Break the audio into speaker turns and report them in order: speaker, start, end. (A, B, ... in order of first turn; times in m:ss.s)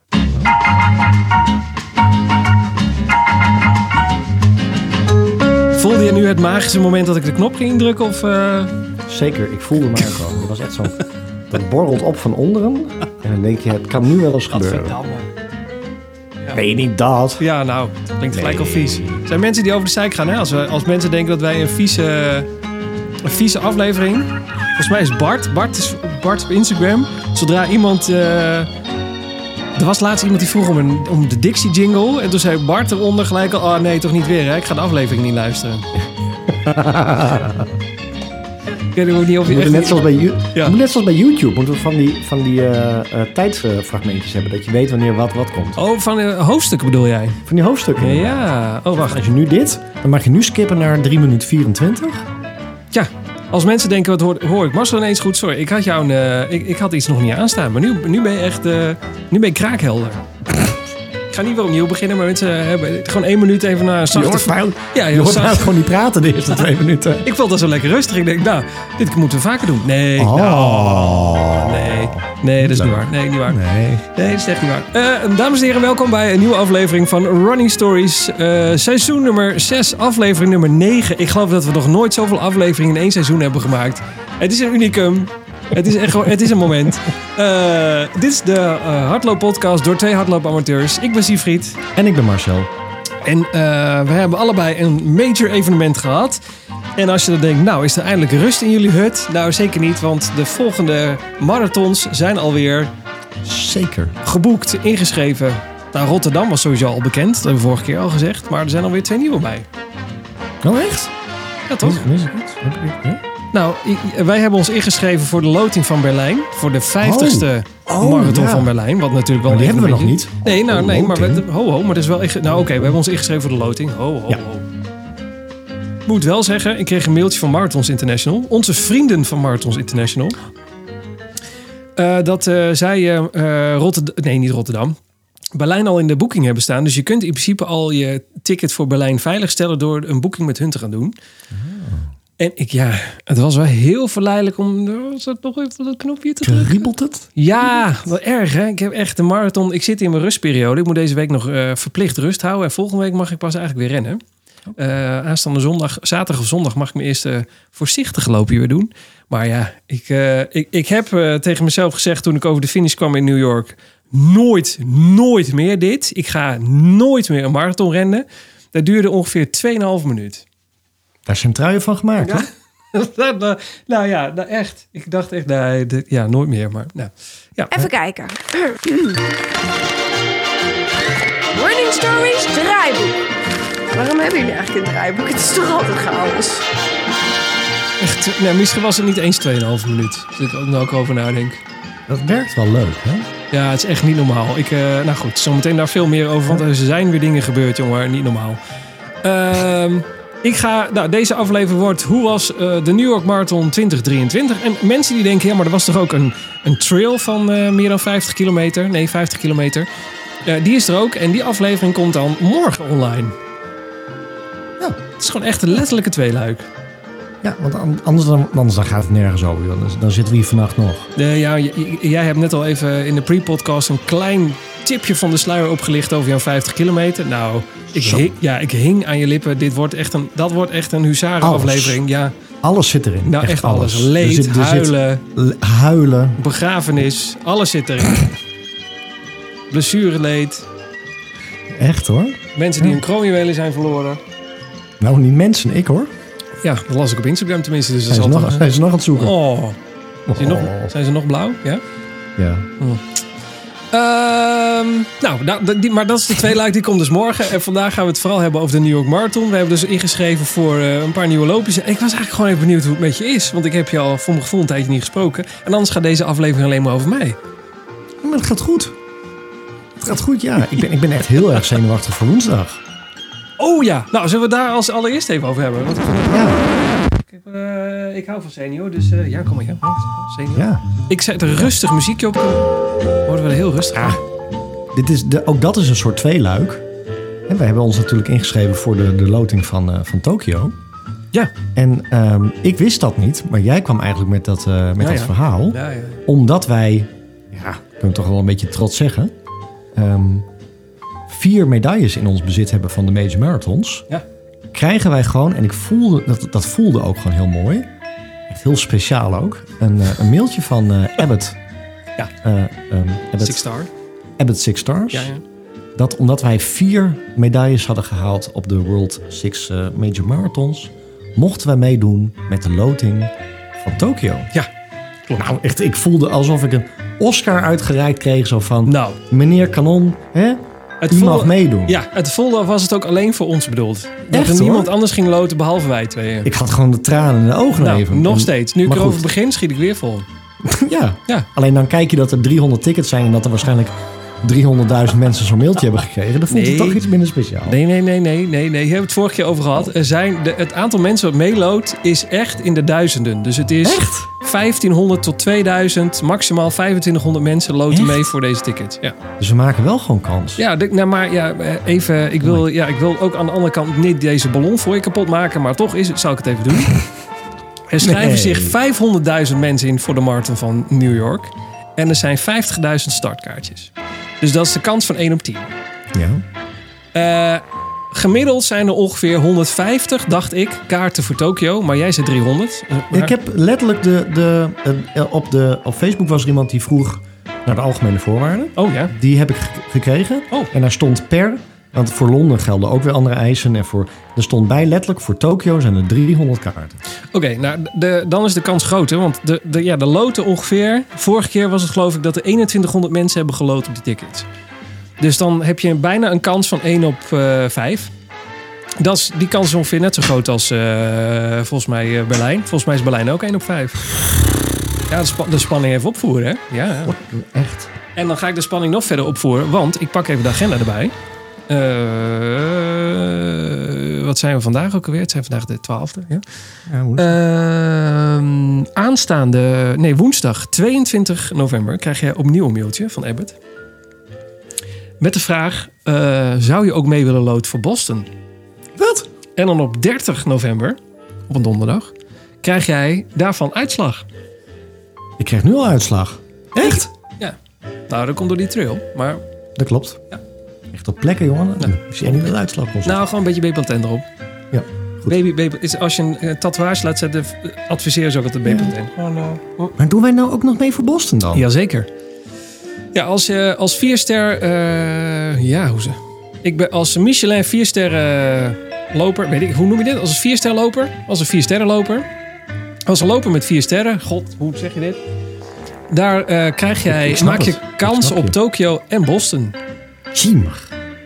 0:00.3-0:00.5 A
0:05.7-0:08.7 B
0:09.1-0:15.0 A
0:14.5-0:15.3 B
0:16.5-0:17.4 A
0:17.4-0:22.5 B
0:18.3-0:19.2 A
0:23.2-0:28.7 B
0:29.8-0:35.9 B
0:36.5-0:37.7 A
0:38.9-0:40.0 B
0:39.4-0:45.8 A
0:45.8-0:47.4 B
0:47.4-0:52.2 A
0:48.0-0:49.2 B
0:52.9-1:00.2 B
1:01.3-1:05.8 B
1:04.1-1:07.3 A
1:07.2-1:31.8 B
1:10.2-1:14.0 A
1:31.9-1:32.7 A
1:33.2-1:36.4 B
1:37.0-1:42.9 B
1:43.4-1:44.2 A
1:44.2-1:49.6 B
1:50.6-1:51.1 A
1:51.7-1:52.1 B
1:51.8-1:53.2 A
1:53.5-2:04.6 B
1:57.0-1:58.7 A
1:59.4-2:01.4 A
2:06.1-2:10.4 B
2:12.0-2:15.0 B
2:15.5-2:21.1 B
2:21.5-2:22.1 A
2:22.4-2:34.2 B
2:26.4-2:27.3 A
2:34.8-2:50.4 B
2:51.2-2:52.4 A
2:52.2-2:57.9 B
2:57.7-2:59.2 C
3:01.5-3:03.3 C
3:03.9-3:06.7 C
3:08.0-3:11.6 B
3:12.1-3:13.3 A
3:13.5-3:18.6 B
3:19.2-3:29.9 B
3:30.4-3:33.3 B
3:35.2-3:36.7 B
3:37.4-3:41.1 A
3:41.2-3:52.3 B
3:47.9-3:48.3 A
3:51.4-3:52.0 A
3:52.6-3:56.4 A
3:53.3-3:55.2 B
3:56.4-3:58.3 B
3:59.7-4:00.6 B
4:01.7-4:03.0 A
4:02.5-4:04.2 B
4:05.0-4:06.1 A
4:06.6-4:09.8 B
4:08.1-4:09.4 A
4:10.3-4:10.9 A
4:10.3-4:11.8 B
4:12.4-4:12.7 A
4:12.8-4:13.2 B
4:13.9-4:27.4 B
4:28.2-4:29.0 A
4:30.0-4:32.8 A
4:33.6-4:42.7 B
4:36.3-4:36.6 A
4:40.5-4:40.8 A
4:43.2-4:44.2 B
4:44.9-4:46.8 A
4:47.5-4:50.7 A
4:51.7-4:59.3 A
4:55.0-4:56.2 B
4:59.9-5:00.5 A
5:01.3-5:04.0 A
5:04.7-5:07.9 A
5:08.5-5:11.6 A
5:12.4-5:13.6 A
5:13.4-5:13.9 B
5:14.4-5:15.3 A
5:15.1-5:15.4 B
5:16.0-5:24.5 A
5:25.4-5:32.0 A
5:28.8-5:29.2 B
5:31.0-5:36.5 B
5:34.3-5:34.9 A
5:36.4-5:39.3 A
5:37.8-5:40.3 B
5:40.6-5:47.8 A
5:46.5-5:47.0 B
5:47.6-5:59.2 B
5:53.8-5:54.3 A
5:57.9-5:58.3 A
5:59.4-6:00.6 A
6:00.6-6:07.0 B
6:07.9-6:15.7 B
6:08.0-6:08.7 A
6:16.1-6:16.4 A
6:17.1-6:23.3 B
6:23.1-6:37.0 A
6:28.8-6:29.1 B
6:37.3-6:44.5 B
6:45.2-6:48.1 B
6:49.0-6:54.0 B
6:55.1-6:57.1 B
6:57.0-6:57.9 A
6:58.1-7:01.1 B
7:01.7-7:06.4 B
7:06.9-7:07.4 A
7:07.2-7:13.5 B
7:15.2-7:18.3 B
7:19.0-7:19.3 A
7:19.6-7:21.0 B
7:21.5-7:24.2 B
7:25.4-7:27.1 A
7:26.8-7:27.6 B
7:28.1-7:29.4 B
7:29.8-7:30.2 A
7:30.9-7:33.2 A
7:31.8-7:32.5 B
7:33.0-7:34.2 B
7:34.7-7:35.4 A
7:35.2-7:39.9 B
7:38.6-7:38.9 A
7:40.0-7:41.6 A
7:41.5-7:42.1 B
7:43.1-7:52.3 B
7:53.1-7:55.2 B
7:56.1-7:59.8 B
7:57.1-7:58.6 A
8:00.3-8:00.9 A